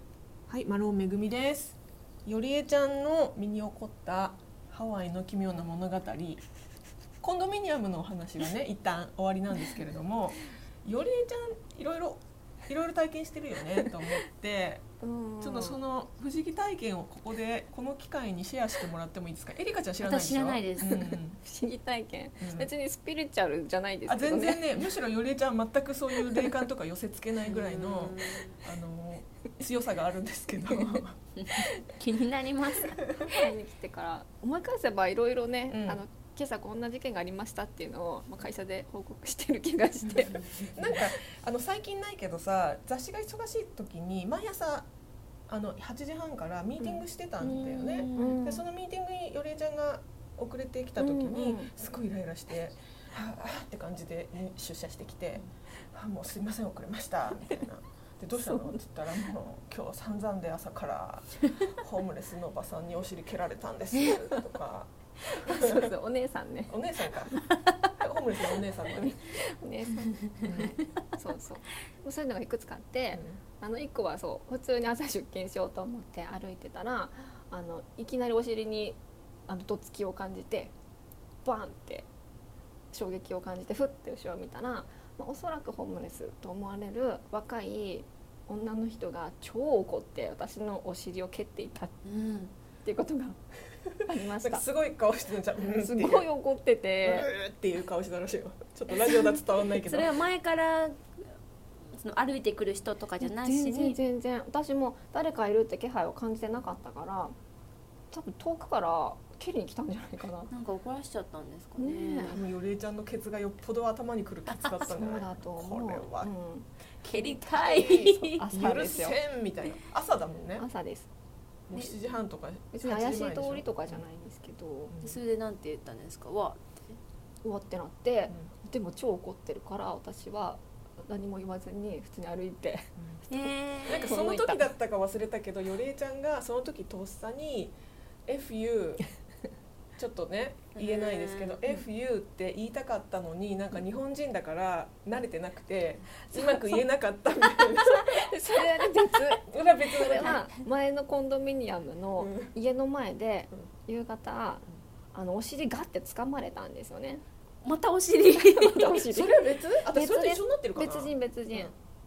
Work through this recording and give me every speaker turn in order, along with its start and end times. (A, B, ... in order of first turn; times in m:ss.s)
0:00.5-0:06.4 A
0:07.2-0:14.8 A
0:15.0-0:15.8 B
0:15.4-0:21.4 A
0:20.0-0:21.2 C
0:21.4-0:24.7 B
0:22.4-0:22.7 A
0:24.1-0:31.2 A
0:27.4-0:28.6 C
0:30.7-0:33.1 C
0:33.2-0:40.5 B
0:35.7-0:36.0 A
0:40.1-0:40.7 C
0:40.3-0:44.9 A
0:45.5-1:05.9 A
0:47.4-0:48.4 C
0:48.1-0:48.6 B
0:51.0-0:51.7 B
0:58.4-0:58.8 B
1:05.2-1:06.8 B
1:06.7-1:07.4 A
1:08.0-1:09.2 A
1:08.8-1:20.7 B
1:10.4-1:10.8 A
1:10.4-1:10.8 C
1:13.1-1:13.4 A
1:21.4-1:22.1 B
1:22.9-1:32.0 B
1:32.0-1:32.5 C
1:32.8-1:33.4 B
1:34.0-1:34.6 B
1:34.4-1:36.2 A
1:35.6-1:37.3 B
1:37.0-1:40.2 A
1:39.8-1:41.3 C
1:41.9-1:44.0 C
1:43.2-1:47.4 B
1:48.1-1:50.5 B
1:50.5-1:52.4 C
1:51.8-1:52.4 B
1:52.3-1:56.3 A
1:54.8-1:59.2 B
1:57.0-1:58.4 C
1:57.5-1:57.9 A
1:58.4-2:00.7 A
2:00.6-2:01.1 B
2:01.7-2:04.0 A
2:02.7-2:04.9 B
2:04.9-2:05.2 A
2:05.0-2:07.0 C
2:07.4-2:14.6 B
2:13.3-2:14.4 C
2:13.8-2:19.0 A
2:20.0-2:28.3 A
2:20.7-2:21.8 C
2:26.2-2:26.8 B
2:27.5-2:37.2 B
2:29.4-2:30.4 A
2:30.1-2:30.5 C
2:32.2-2:32.5 A
2:37.6-2:39.0 C
2:38.4-2:41.7 B
2:38.8-2:41.7 A